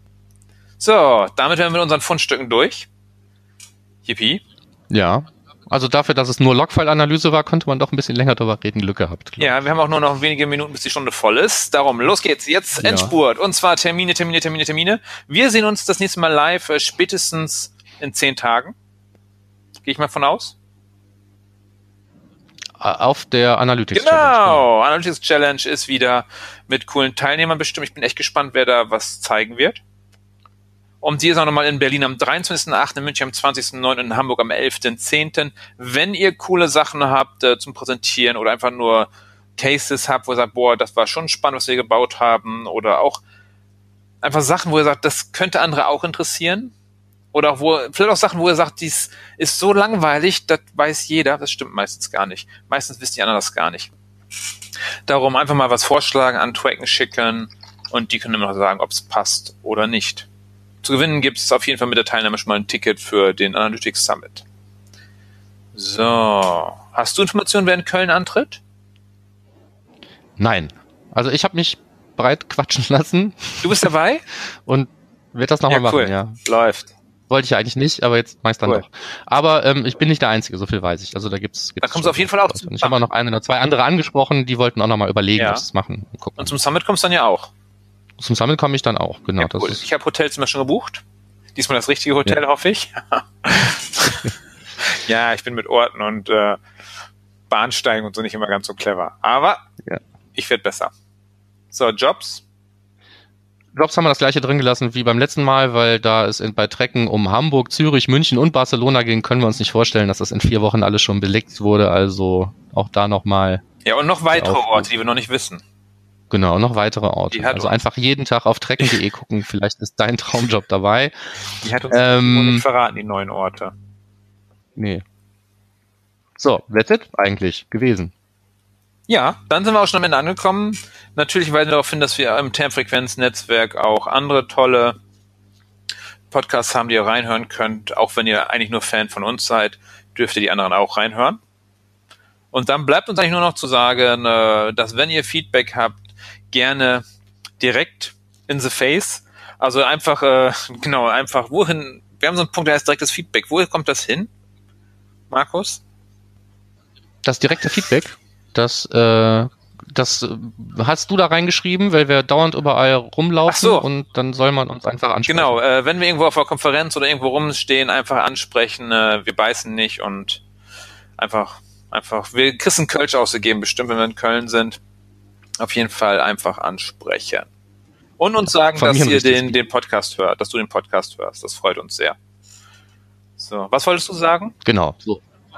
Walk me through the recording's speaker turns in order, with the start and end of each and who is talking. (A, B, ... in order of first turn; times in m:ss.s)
0:00.8-0:02.9 A
0:04.0-0:04.4 A
0:04.9-0:09.6 B
0:09.4-0:18.8 A
0:12.8-0:13.1 B
0:19.8-0:20.6 A
0:22.8-0:24.6 B
0:23.9-0:29.8 A
0:31.0-0:43.2 A
0:44.2-0:46.7 A
0:47.3-0:53.9 A
0:55.1-1:00.3 A
1:00.8-1:04.4 A
1:05.8-1:08.6 A
1:10.4-1:13.9 B
1:13.6-1:14.2 A
1:14.7-1:16.4 B
1:15.7-1:16.9 A
1:17.3-1:26.5 B
1:21.8-1:23.0 A
1:25.4-1:25.6 A
1:26.4-1:27.5 A
1:28.2-1:29.8 B
1:29.4-1:31.0 A
1:31.6-1:36.6 A
1:37.5-1:39.6 A
1:40.4-1:40.9 A
1:41.7-1:42.4 A
1:43.8-1:53.6 B
1:53.8-1:55.6 A
1:54.3-1:54.9 B
1:56.3-2:01.2 B
1:57.3-1:57.8 A
2:01.6-2:03.8 A
2:01.9-2:02.6 B
2:04.8-2:05.0 B
2:06.4-2:08.1 B
2:09.1-2:15.0 A
2:16.3-2:21.4 A
2:22.5-2:27.0 A
2:27.6-2:34.3 A
2:35.3-2:35.8 A
2:37.2-2:45.6 B
2:43.5-2:43.9 A
2:45.3-2:50.4 A
2:51.2-2:54.8 A
2:55.6-2:57.5 A
2:58.2-3:02.2 A
2:58.4-2:59.6 B
3:03.4-3:04.6 A
3:04.6-3:05.2 B